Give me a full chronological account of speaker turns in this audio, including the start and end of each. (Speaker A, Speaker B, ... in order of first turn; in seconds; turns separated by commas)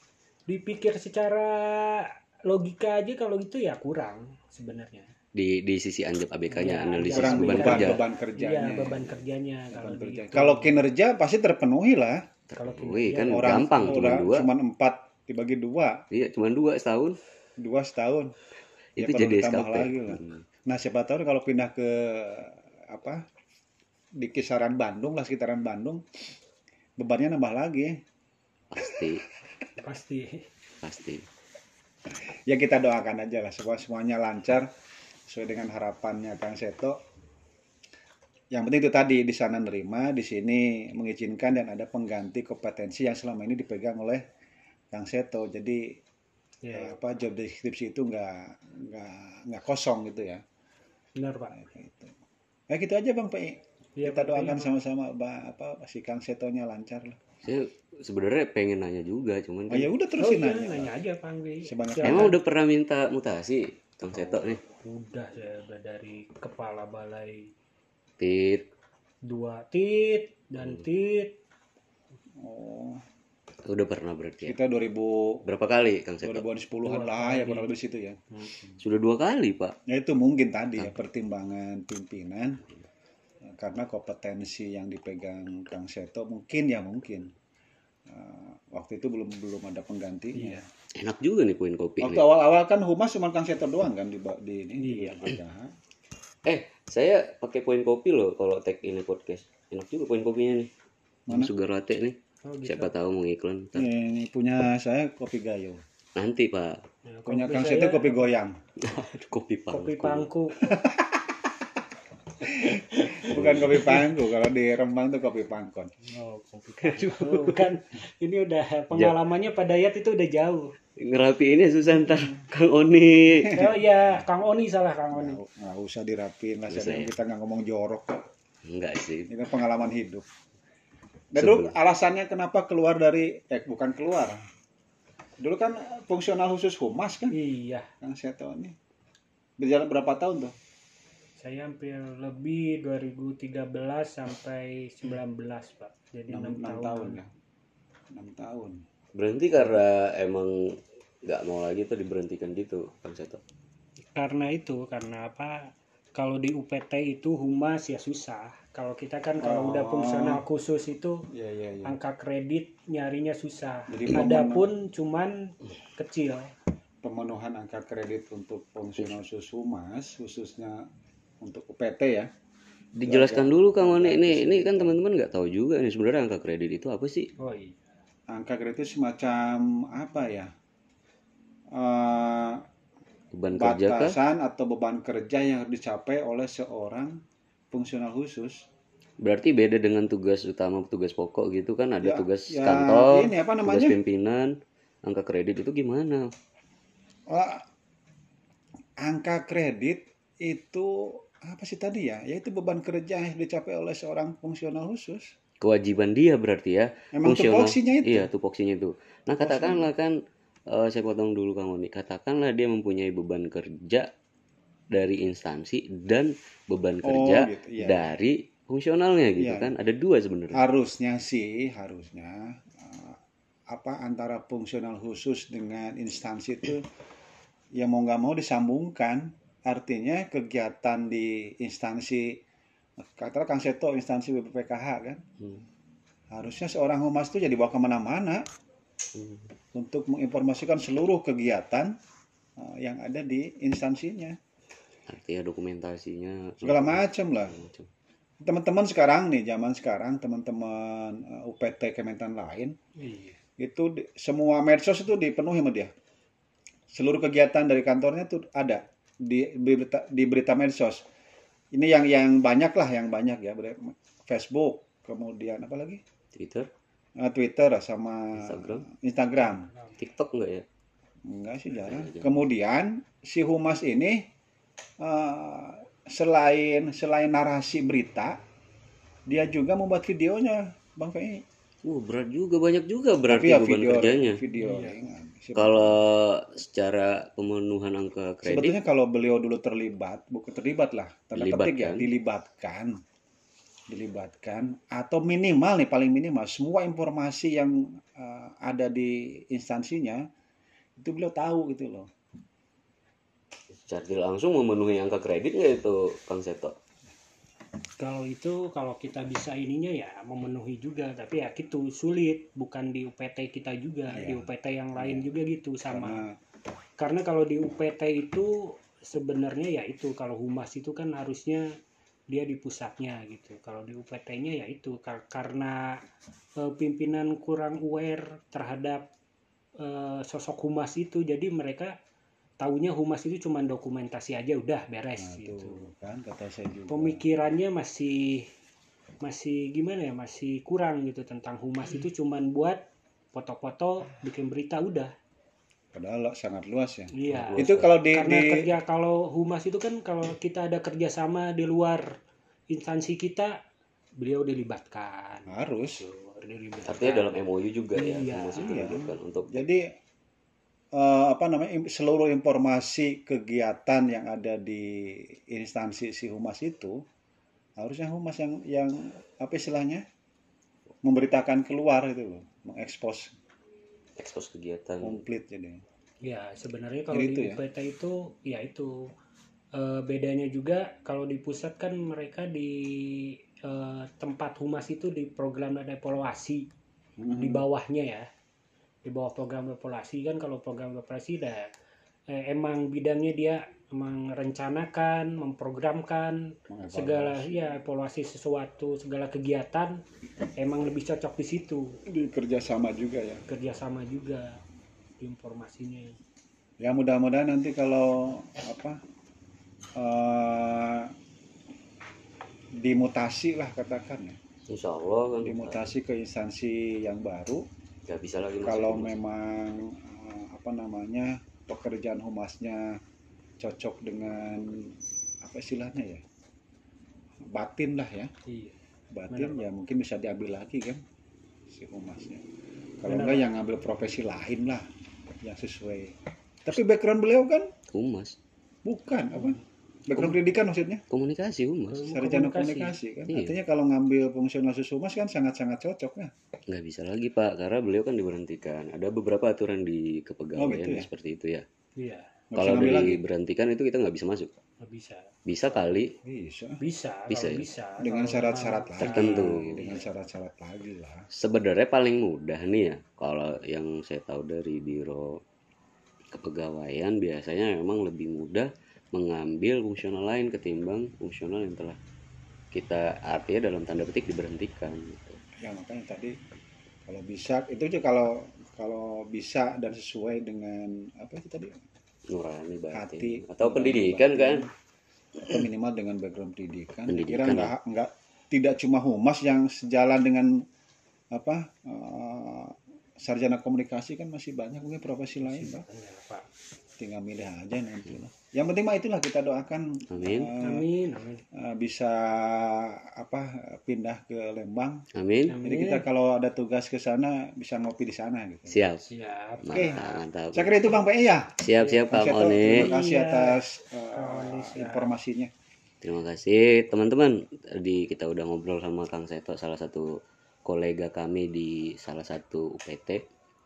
Speaker A: 0.5-5.1, Speaker B: 5.3-8.0, Speaker A: 6.5-10.8, Speaker C: 7.0-9.2, Speaker C: 9.7-12.2, Speaker B: 12.5-14.5, Speaker A: 12.6-14.2, Speaker C: 13.2-16.0, Speaker B: 16.1-17.2, Speaker C: 17.6-18.3, Speaker B: 19.0-20.4, Speaker C: 19.0-23.2, Speaker C: 24.2-26.0, Speaker C: 27.0-27.9, Speaker B: 28.7-29.2, Speaker A: 29.8-30.5, Speaker B: 30.8-31.2, Speaker C: 32.3-34.7, Speaker C: 35.3-37.0, Speaker C: 38.5-44.2, Speaker C: 44.9-46.0, Speaker A: 46.6-47.0, Speaker C: 46.7-50.4, Speaker A: 51.2-51.6, Speaker C: 51.5-52.1, Speaker C: 52.7-57.2, Speaker A: 54.0-54.8, Speaker B: 57.4-59.9, Speaker C: 59.7-60.9, Speaker A: 60.2-62.4, Speaker C: 61.6-62.4, Speaker B: 62.0-64.6, Speaker A: 64.8-67.5, Speaker B: 68.2-68.7, Speaker A: 69.3-71.4, Speaker C: 72.4-73.0, Speaker B: 73.7-74.6, Speaker C: 74.4-75.4, Speaker B: 75.5-76.5, Speaker C: 76.2-78.2, Speaker A: 76.8-77.7, Speaker A: 78.3-78.6, Speaker B: 78.8-79.8, Speaker C: 79.9-82.6, Speaker C: 83.6-87.3, Speaker C: 88.1-90.7, Speaker A: 90.3-90.7, Speaker B: 91.0-92.2, Speaker C: 92.0-95.7, Speaker A: 94.8-95.3, Speaker B: 96.5-100.7, Speaker C: 101.3-101.5, Speaker B: 101.3-103.9, Speaker A: 102.5-102.9, Speaker C: 103.8-105.8, Speaker B: 106.2-106.8, Speaker A: 107.1-108.2, Speaker C: 107.3-108.6, Speaker B: 108.8-110.3, Speaker A: 109.7-110.7, Speaker C: 110.6-111.3, Speaker C: 112.4-115.9, Speaker B: 113.3-114.0, Speaker A: 116.1-120.7, Speaker B: 116.8-117.6, Speaker B: 121.0-123.6, Speaker C: 122.0-122.4, Speaker C: 123.5-124.3, Speaker A: 123.5-125.4, Speaker C: 125.1-128.2, Speaker B: 126.7-127.1, Speaker B: 128.7-129.3, Speaker C: 129.3-130.3, Speaker C: 131.3-134.4, Speaker B: 131.3-131.7, Speaker C: 135.4-137.3, Speaker A: 137.3-137.9, Speaker C: 138.0-138.8, Speaker C: 139.6-140.5, Speaker A: 141.4-147.2, Speaker C: 146.3-147.3, Speaker C: 148.1-148.8, Speaker B: 149.2-153.4, Speaker A: 154.1-155.6, Speaker A: 156.2-161.2, Speaker C: 159.4-160.4, Speaker C: 161.3-162.0, Speaker A: 161.9-166.5, Speaker C: 163.9-164.7, Speaker C: 167.0-170.8, Speaker C: 171.4-172.3, Speaker B: 173.0-177.3, Speaker C: 173.1-175.0, Speaker A: 177.4-177.8, Speaker C: 178.3-180.5, Speaker C: 181.8-182.6, Speaker B: 183.3-184.2, Speaker C: 183.5-187.2, Speaker C: 187.7-188.6, Speaker B: 189.2-194.5, Speaker C: 192.0-194.0, Speaker B: 195.1-196.3, Speaker C: 197.3-197.6, Speaker C: 199.0-205.3, Speaker B: 205.6-210.1, Speaker C: 207.1-208.3, Speaker C: 209.4-209.9, Speaker B: 210.7-214.1, Speaker B: 214.9-220.6, Speaker C: 217.0-218.1, Speaker C: 219.4-219.7, Speaker C: 220.5-223.2, Speaker C: 223.7-226.9, Speaker C: 227.8-232.4, Speaker C: 233.0-235.2, Speaker C: 236.3-238.4, Speaker B: 239.2-239.5, Speaker C: 239.7-241.9, Speaker C: 242.6-244.4, Speaker B: 245.1-247.9, Speaker C: 246.6-247.6, Speaker C: 248.4-252.8, Speaker A: 253.0-253.4, Speaker C: 253.6-255.9, Speaker C: 256.9-261.0, Speaker C: 261.7-266.0, Speaker B: 266.3-266.7, Speaker C: 267.2-269.7, Speaker B: 268.4-268.9, Speaker A: 269.4-270.0, Speaker B: 270.0-270.6, Speaker C: 271.3-274.3, Speaker B: 271.7-272.4, Speaker C: 275.0-278.4, Speaker C: 279.3-281.4, Speaker B: 281.9-284.4, Speaker C: 283.3-286.0, Speaker A: 284.5-285.0, Speaker B: 285.6-288.8, Speaker C: 288.4-293.0, Speaker B: 291.4-292.1, Speaker C: 293.9-300.2, Speaker C: 301.0-302.1, Speaker B: 303.8-306.8, Speaker A: 308.0-316.2, Speaker C: 314.1-315.3, Speaker C: 315.9-316.4, Speaker A: 317.0-321.7, Speaker A: 322.3-326.0, Speaker A: 326.6-329.1, Speaker A: 329.8-331.9, Speaker A: 332.6-335.9, Speaker C: 335.2-337.2, Speaker A: 336.9-338.5, Speaker A: 339.2-342.8, Speaker A: 343.3-345.1, Speaker C: 345.9-348.7, Speaker A: 347.1-352.1, Speaker B: 347.3-347.9, Speaker A: 352.7-353.5, Speaker A: 354.2-357.3, Speaker C: 355.5-356.0, Speaker B: 356.8-359.7, Speaker A: 357.9-358.9, Speaker C: 358.6-359.9, Speaker C: 360.9-367.0, Speaker C: 367.8-370.0, Speaker C: 371.0-373.4, Speaker B: 374.2-375.2, Speaker C: 375.0-375.8, Speaker A: 376.2-379.0, Speaker C: 377.1-377.6, Speaker A: 379.8-386.7, Speaker C: 387.2-387.7, Speaker A: 387.4-388.3, Speaker A: 389.1-391.7, Speaker A: 392.3-396.4, Speaker C: 396.7-397.7, Speaker A: 396.9-399.9, Speaker A: 400.6-402.0, Speaker C: 402.1-403.4, Speaker A: 403.5-404.6, Speaker A: 405.2-406.2, Speaker C: 406.8-409.0, Speaker C: 410.0-411.1, Speaker C: 412.8-414.4, Speaker B: 414.7-415.8, Speaker C: 415.4-417.6, Speaker B: 418.1-419.2, Speaker C: 418.6-423.0, Speaker C: 423.6-426.2, Speaker C: 427.5-428.3, Speaker A: 428.5-428.8, Speaker C: 429.1-431.0, Speaker A: 429.3-429.6, Speaker C: 431.7-432.4, Speaker C: 433.0-434.9, Speaker A: 433.1-433.5, Speaker C: 435.4-437.7, Speaker B: 437.9-438.4, Speaker C: 438.9-441.0, Speaker A: 439.4-439.6, Speaker B: 441.1-442.0, Speaker A: 441.9-443.0, Speaker C: 442.0-446.3, Speaker B: 443.3-443.6, Speaker B: 446.7-451.6, Speaker C: 450.6-451.1, Speaker A: 452.0-452.4, Speaker C: 452.5-453.2, Speaker B: 452.6-454.5, Speaker A: 454.8-455.3, Speaker B: 455.5-456.1, Speaker C: 456.2-456.8, Speaker A: 456.8-460.0, Speaker B: 457.3-457.7, Speaker C: 458.0-461.2, Speaker B: 459.0-459.9, Speaker B: 461.3-465.4, Speaker B: 466.3-472.0, Speaker B: 472.7-475.4, Speaker C: 475.6-476.3, Speaker C: 477.1-481.8, Speaker B: 482.3-484.7, Speaker C: 482.9-484.7, Speaker C: 485.4-490.6, Speaker B: 487.1-487.7, Speaker C: 491.3-495.9, Speaker A: 495.4-496.5, Speaker C: 497.0-500.9, Speaker B: 500.1-500.5, Speaker A: 500.6-501.4, Speaker C: 501.5-505.0, Speaker B: 505.1-505.6, Speaker A: 505.5-506.1, Speaker C: 505.6-508.8, Speaker B: 508.7-509.1, Speaker A: 509.1-509.8, Speaker B: 509.6-510.8, Speaker C: 509.7-511.6, Speaker B: 511.6-512.9, Speaker A: 511.8-512.1, Speaker C: 512.1-515.5, Speaker A: 512.6-513.6, Speaker A: 514.1-515.1, Speaker B: 516.0-520.1, Speaker B: 520.6-523.2